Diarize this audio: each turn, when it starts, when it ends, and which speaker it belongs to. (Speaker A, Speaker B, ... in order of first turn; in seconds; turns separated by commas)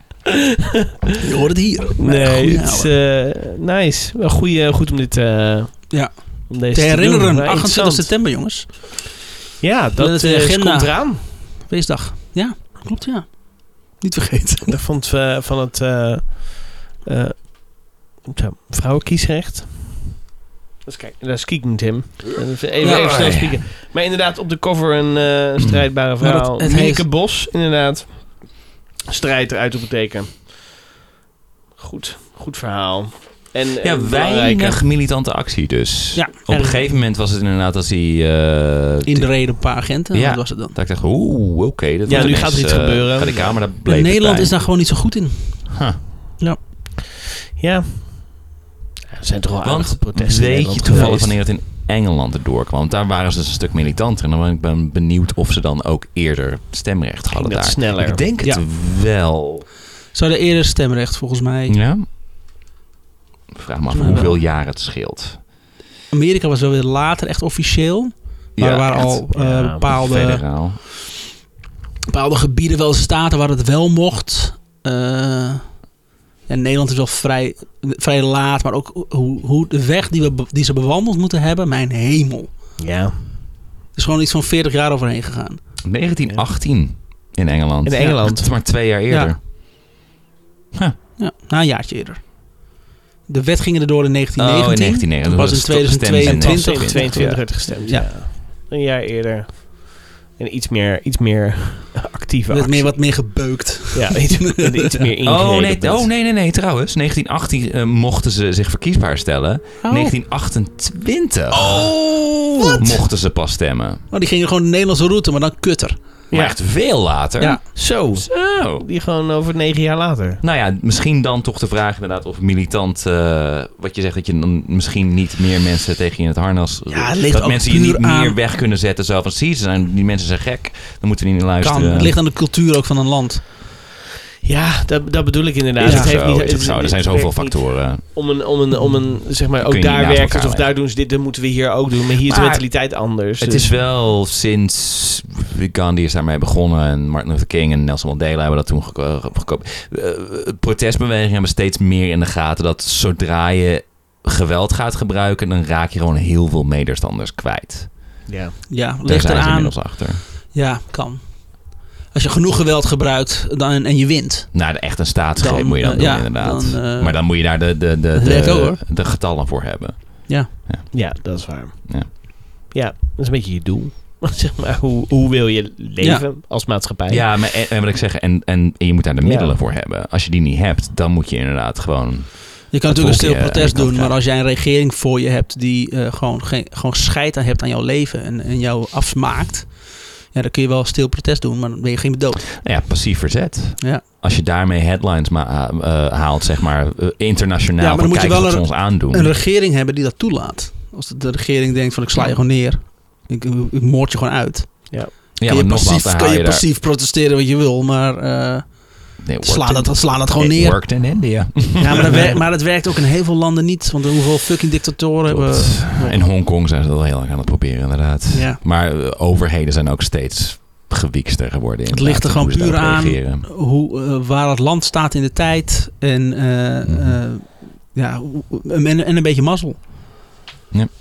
Speaker A: 1.2-2.9, Speaker B: 2.0-8.2, Speaker A: 5.9-9.1, Speaker B: 9.6-11.3, Speaker A: 10.0-14.8, Speaker B: 14.7-20.2, Speaker B: 20.9-30.5, Speaker A: 22.8-23.2, Speaker C: 22.8-23.6, Speaker A: 26.2-27.1, Speaker B: 31.8-34.9, Speaker C: 33.8-44.6, Speaker A: 36.1-36.8, Speaker A: 39.1-40.8, Speaker B: 42.1-43.6, Speaker A: 43.8-45.8, Speaker C: 45.7-46.0, Speaker B: 47.6-48.5, Speaker B: 49.1-51.4, Speaker C: 49.6-59.7, Speaker A: 50.9-51.1, Speaker B: 57.3-58.2, Speaker A: 60.1-61.8, Speaker C: 61.7-62.1, Speaker C: 63.5-65.4, Speaker A: 63.9-64.4, Speaker A: 66.1-70.7, Speaker C: 68.6-70.8, Speaker B: 69.3-69.8, Speaker A: 72.1-75.8, Speaker A: 76.5-82.8, Speaker B: 82.8-83.2, Speaker A: 83.9-85.6, Speaker C: 85.8-89.4, Speaker B: 87.8-88.5, Speaker A: 89.0-89.3, Speaker A: 91.2-92.7, Speaker A: 93.3-98.1, Speaker C: 94.4-97.5, Speaker B: 96.2-103.1, Speaker A: 102.5-105.0, Speaker B: 103.9-106.1, Speaker C: 105.2-114.0, Speaker A: 109.8-110.2, Speaker A: 111.5-113.0, Speaker A: 114.1-116.0, Speaker B: 116.3-116.6, Speaker C: 116.3-117.6, Speaker B: 117.1-120.4, Speaker C: 118.1-118.9, Speaker C: 120.4-132.2, Speaker A: 126.9-128.4, Speaker A: 131.6-133.4, Speaker B: 134.4-143.7, Speaker C: 135.8-138.0, Speaker A: 135.8-136.2, Speaker C: 139.6-140.7, Speaker C: 142.2-142.8, Speaker C: 143.4-158.2, Speaker B: 158.3-158.6, Speaker A: 158.7-164.8, Speaker C: 159.0-160.2, Speaker C: 164.5-171.0, Speaker A: 165.4-168.8, Speaker B: 170.9-177.3, Speaker A: 176.0-176.3, Speaker C: 177.1-184.2, Speaker B: 179.2-179.6, Speaker A: 182.7-192.6, Speaker C: 192.6-199.4, Speaker A: 197.8-216.3, Speaker C: 205.4-206.6, Speaker C: 209.2-212.4, Speaker C: 215.3-223.5, Speaker A: 218.3-218.6, Speaker A: 221.9-230.0, Speaker C: 226.8-227.2